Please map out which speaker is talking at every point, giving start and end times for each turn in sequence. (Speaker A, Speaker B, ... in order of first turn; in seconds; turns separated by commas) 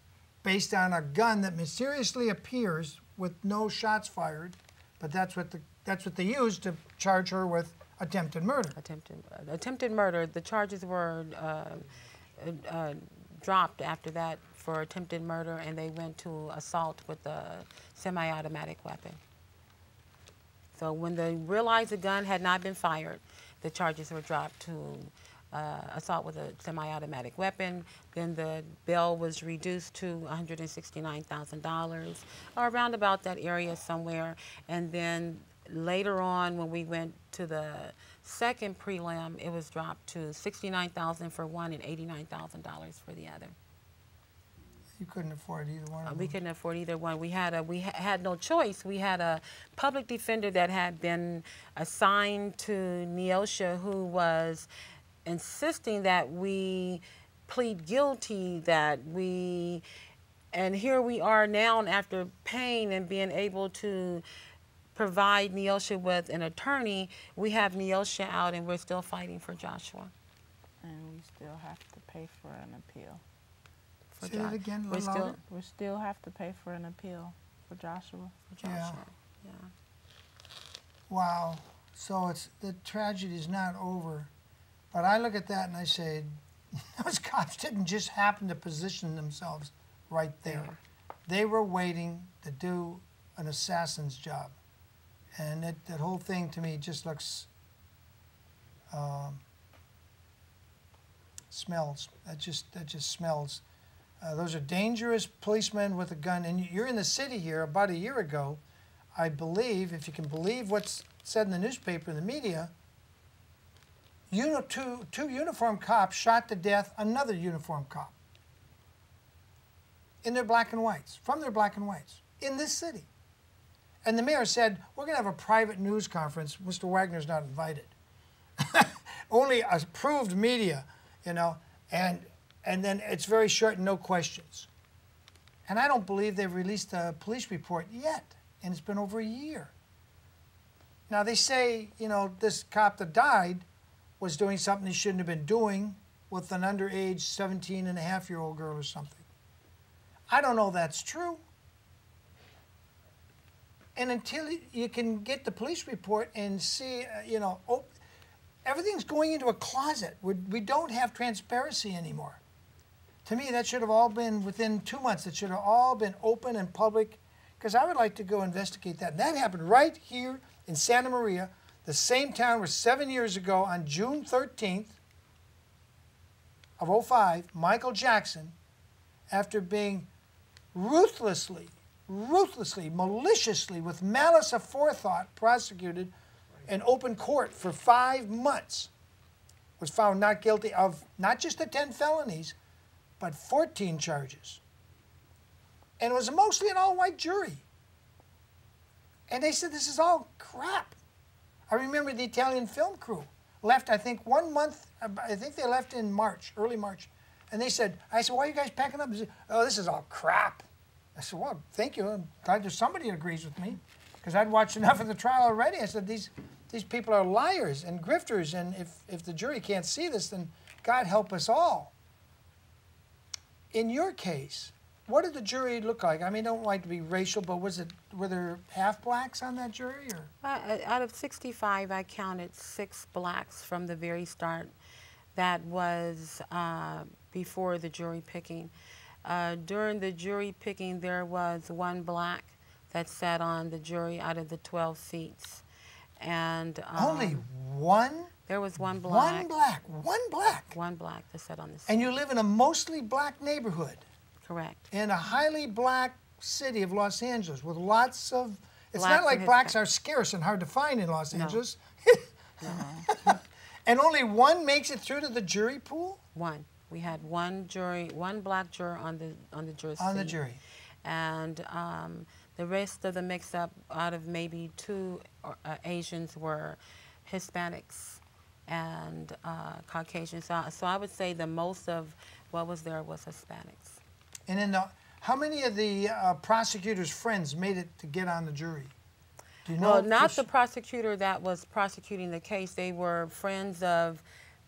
Speaker A: 0.4-8.8, Speaker B: 8.8-19.2, Speaker B: 20.8-43.5, Speaker A: 45.0-46.4, Speaker B: 46.0-54.7, Speaker B: 55.2-59.8, Speaker B: 60.5-64.2, Speaker B: 64.9-70.1, Speaker C: 70.8-73.2, Speaker B: 74.1-75.4, Speaker A: 74.2-75.4, Speaker C: 75.4-78.4, Speaker B: 78.5-79.7, Speaker A: 78.6-79.0, Speaker A: 81.1-84.3, Speaker A: 84.9-90.7, Speaker B: 90.5-90.8, Speaker A: 91.3-94.5, Speaker A: 95.4-97.5, Speaker A: 98.9-99.4, Speaker A: 101.5-103.6, Speaker A: 104.2-108.6, Speaker A: 109.2-112.7, Speaker A: 114.3-118.2, Speaker A: 120.2-123.1, Speaker A: 124.0-127.9, Speaker A: 128.6-134.7, Speaker A: 135.7-139.7, Speaker A: 141.1-143.7, Speaker A: 144.2-149.3, Speaker A: 150.3-151.4, Speaker A: 153.9-157.9, Speaker A: 158.6-162.4, Speaker A: 163.2-175.0, Speaker A: 176.8-178.5, Speaker A: 179.3-180.1, Speaker A: 180.7-186.1, Speaker A: 186.7-188.9, Speaker A: 189.8-192.6, Speaker A: 193.2-194.6, Speaker A: 196.0-197.6, Speaker A: 199.3-201.0, Speaker A: 201.7-221.9, Speaker A: 223.7-230.3, Speaker B: 230.4-234.7, Speaker B: 235.3-238.7, Speaker B: 239.2-245.6, Speaker B: 246.2-247.4, Speaker A: 246.9-248.3, Speaker B: 248.5-249.5, Speaker A: 249.1-250.7, Speaker B: 250.7-252.1, Speaker A: 251.9-254.0, Speaker B: 254.4-254.8, Speaker A: 254.9-266.2, Speaker B: 258.9-259.8, Speaker B: 261.3-261.6, Speaker B: 262.6-262.9, Speaker C: 262.7-263.1, Speaker B: 266.4-270.4, Speaker A: 270.0-270.6, Speaker B: 271.0-284.0, Speaker A: 284.5-288.9, Speaker A: 289.6-290.4, Speaker B: 289.8-294.2